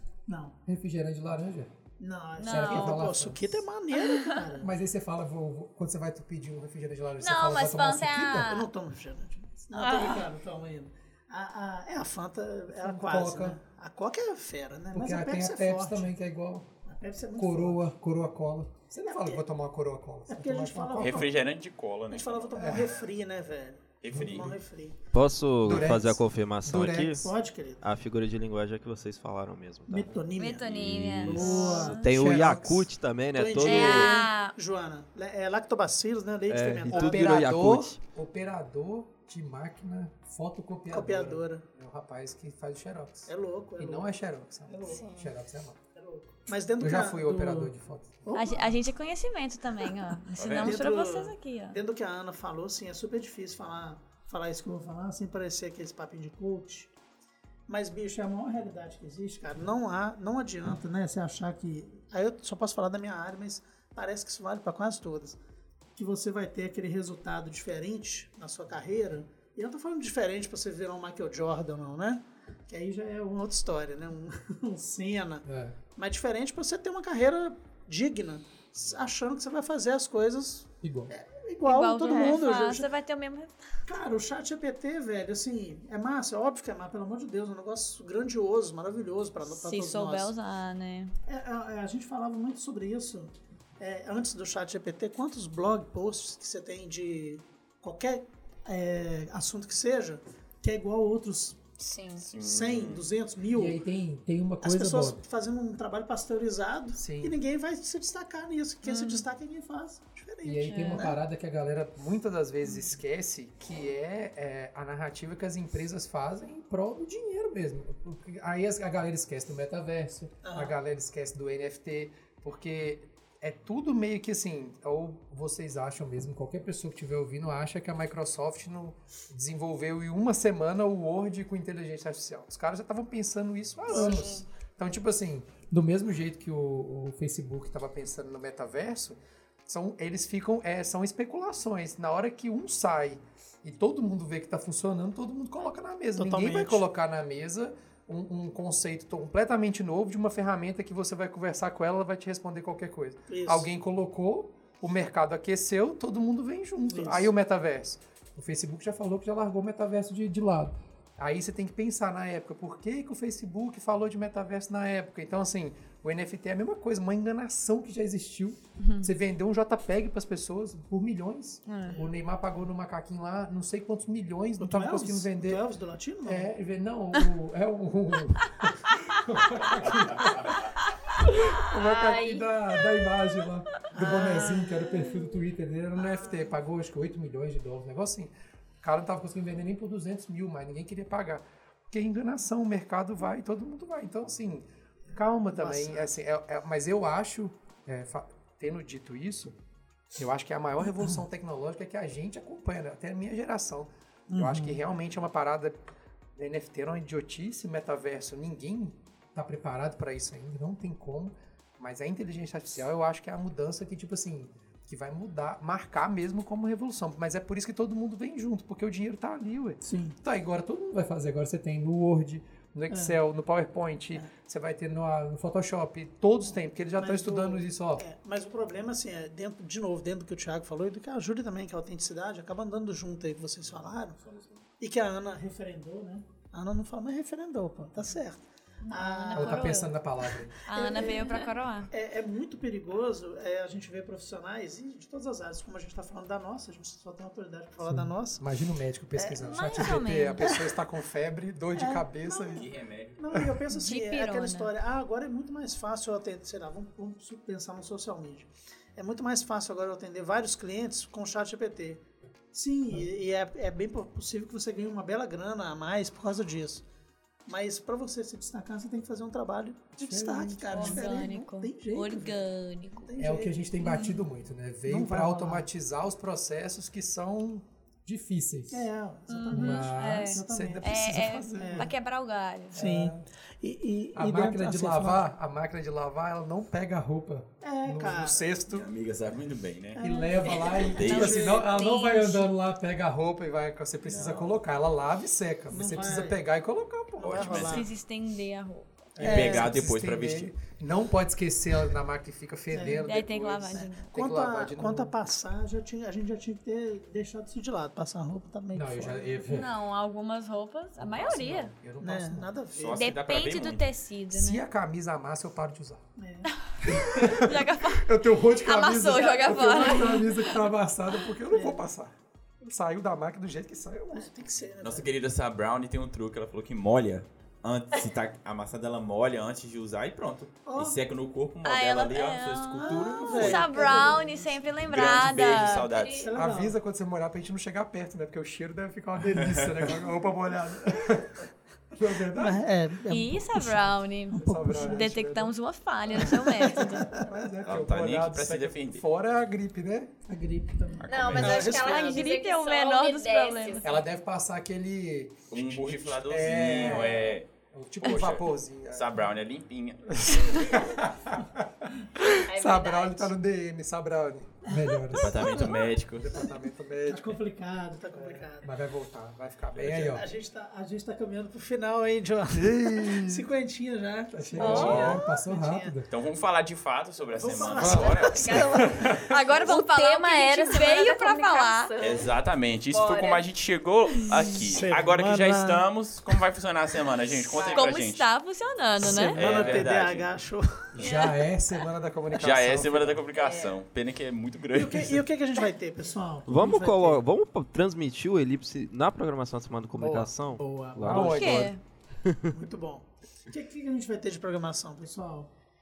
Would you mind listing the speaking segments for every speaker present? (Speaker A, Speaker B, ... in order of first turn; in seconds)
Speaker A: 0.3-0.6, 2.0-4.7, 8.4-16.1, 16.9-17.8, 19.1-19.4, 20.3-21.4, 22.1-25.0, 27.2-27.8, 29.9-32.0, 33.3-37.5, 40.9-41.6, 43.3-44.1, 44.7-45.1, 45.9-47.7, 48.2-48.7, 50.5-56.9, 57.7-65.4, 66.0-82.9, 83.9-90.3, 91.2-101.6, 102.4-103.8, 104.6-111.2, 120.4-120.8, 146.2-146.8, 153.3-153.7, 156.9-157.3, 171.9-172.1, 174.6-176.5, 183.9-184.8, 195.1-196.1, 204.3-204.8, 219.8-220.2, 222.9-223.2, 227.0-234.2, 234.8-239.8, 240.7-248.4, 249.2-250.0, 251.7-262.0, 262.5-266.8, 267.5-274.2, 274.9-275.7, 278.7-281.9, 282.7-285.2, 287.6-288.6, 289.9-291.7, 295.7-296.4, 297.2-297.9, 299.2-299.7, 302.7-303.1, 303.7-309.4, 312.0-313.1, 316.2-316.5, 319.1-320.2, 321.5-321.8, 324.1-325.1, 330.7-331.0, 332.8-336.8, 342.3-345.0, 346.1-347.3, 350.3-352.3, 356.6-357.1, 364.7-365.8, 367.1-368.7, 370.0-375.9, 377.3-379.1, 384.6-385.8, 389.0-390.8, 394.7-397.2, 400.6-401.6, 402.5-405.5
Speaker B: 0.7-1.7, 2.5-3.6, 4.6-8.6, 12.8-13.6, 14.9-16.7, 17.4-21.3, 22.6-23.0, 24.1-24.5, 25.6-27.3, 32.0-32.9, 36.9-45.8, 46.8-48.3, 75.4-75.8, 80.8-81.1, 103.5-105.2, 107.0-107.4, 110.4-175.6, 176.2-180.6, 181.2-199.6, 200.1-205.8, 206.3-228.0, 239.3-240.6, 247.8-252.7, 253.3-253.6, 270.0-271.3, 273.2-278.9, 279.5-281.9, 282.7-283.2, 284.1-288.9, 290.0-297.8, 299.2-305.1, 308.7-309.7, 311.0-312.5, 314.3-316.0, 316.8-324.3, 336.3-342.6, 344.3-345.5, 346.6-350.1, 353.8-359.2, 360.1-367.4, 368.1-370.2, 372.6-373.4, 374.3-376.1, 377.8-379.4, 390.9-393.2, 400.0-400.3, 401.0-401.7
Speaker C: 2.4-3.1, 4.1-4.3, 7.2-8.7, 9.8-10.2, 30.4-32.0, 33.6-34.5, 48.3-51.8, 81.6-83.5, 89.5-91.1, 108.8-109.2, 110.6-111.1, 168.8-169.1, 171.7-172.0, 238.8-239.9, 240.7-241.9, 249.4-250.5, 253.7-254.7, 270.7-273.1, 279.3-282.8, 290.9-292.5, 297.7-299.4, 303.0-304.1, 309.4-311.8, 312.9-314.6, 316.5-320.4, 331.6-335.9, 343.1-347.1, 351.4-353.9, 374.6-375.1, 379.2-381.9, 387.5-389.8, 401.2-401.8
Speaker D: 21.0-22.5, 24.0-24.5, 30.6-31.5, 50.4-50.9, 102.2-103.1, 252.5-253.2, 288.7-290.0, 290.9-291.5, 294.1-294.5, 297.2-297.9, 299.2-300.5, 312.8-313.9, 324.8-333.7, 334.9-336.2, 339.3-339.7, 347.6-349.0, 351.0-351.7, 355.5-357.5, 358.0-360.7, 365.1-366.5, 369.7-370.1, 374.6-375.2, 376.1-378.7, 382.0-388.2, 389.3-390.3, 392.4-395.2
Speaker E: 25.1-27.3, 27.8-30.3, 31.4-34.2, 36.5-38.0, 396.4-401.7
Speaker F: 44.9-45.3, 82.1-82.4, 101.8-102.3, 133.9-134.4, 181.7-182.5, 335.7-336.3, 351.1-354.1, 362.4-363.3, 377.6-382.3, 382.9-383.4, 387.5-387.9, 391.0-391.3, 393.3-393.8